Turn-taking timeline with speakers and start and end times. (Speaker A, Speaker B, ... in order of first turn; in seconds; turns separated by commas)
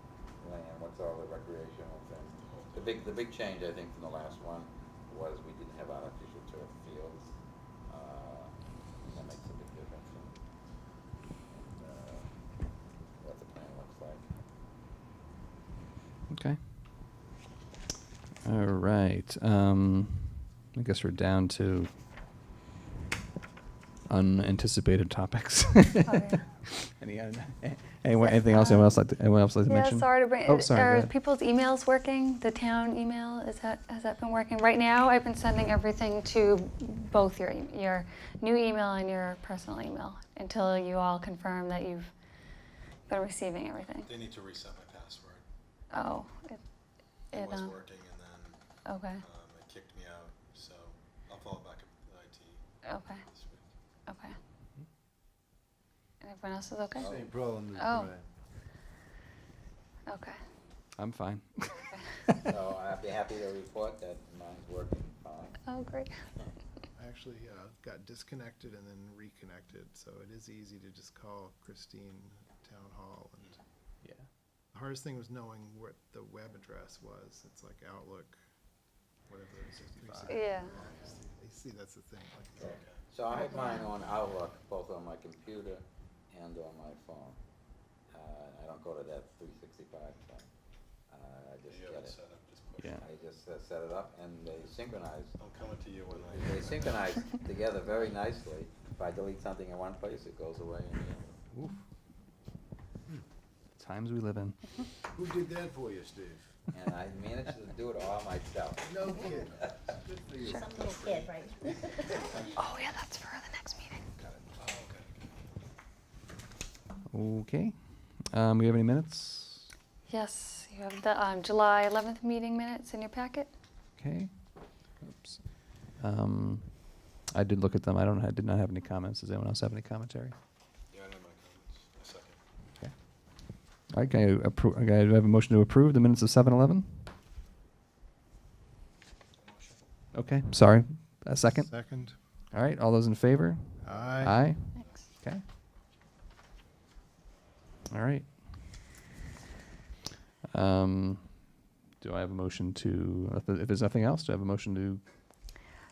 Speaker A: 0.4-7.3, Speaker B: 2.4-3.3, Speaker A: 7.9-10.4, Speaker A: 11.5-12.3, Speaker A: 13.2-14.3, Speaker C: 16.3-16.6, Speaker C: 18.4-21.9, Speaker C: 24.1-31.1, Speaker D: 28.2-28.9, Speaker D: 29.7-42.1, Speaker D: 43.1-44.1, Speaker B: 44.0-45.5, Speaker D: 45.9-46.6, Speaker B: 47.3-48.6, Speaker D: 48.9-49.2, Speaker B: 49.2-53.7, Speaker D: 52.9-53.2, Speaker D: 54.1-54.4, Speaker D: 56.2-57.0, Speaker A: 56.9-57.2, Speaker E: 57.0-58.3, Speaker D: 60.1-60.4, Speaker C: 61.0-62.0, Speaker A: 62.5-65.6, Speaker D: 65.7-66.1, Speaker F: 67.0-73.5, Speaker C: 74.0-74.3, Speaker F: 74.7-78.4, Speaker F: 79.3-82.8, Speaker C: 79.9-80.4, Speaker D: 80.3-80.7, Speaker B: 82.6-83.0, Speaker A: 82.6-87.4, Speaker G: 83.3-83.9, Speaker A: 88.1-90.5, Speaker A: 91.1-92.2, Speaker B: 91.7-93.0, Speaker C: 92.8-93.0, Speaker A: 93.0-95.4, Speaker B: 95.4-97.0, Speaker A: 96.4-101.3, Speaker C: 101.5-101.8, Speaker C: 103.8-104.6, Speaker E: 105.2-106.5, Speaker A: 106.7-109.5, Speaker E: 108.9-109.4, Speaker E: 110.0-111.3, Speaker G: 110.4-112.5, Speaker D: 112.6-114.0, Speaker B: 114.6-115.1, Speaker C: 117.1-119.7, Speaker D: 120.1-123.5, Speaker C: 124.0-130.3, Speaker B: 130.9-132.4, Speaker C: 132.8-137.1, Speaker B: 139.4-139.8, Speaker C: 140.1-145.4, Speaker F: 141.6-142.2, Speaker F: 143.8-144.4, Speaker B: 143.9-145.2, Speaker C: 147.9-148.6, Speaker C: 150.5-151.5, Speaker C: 152.0-155.0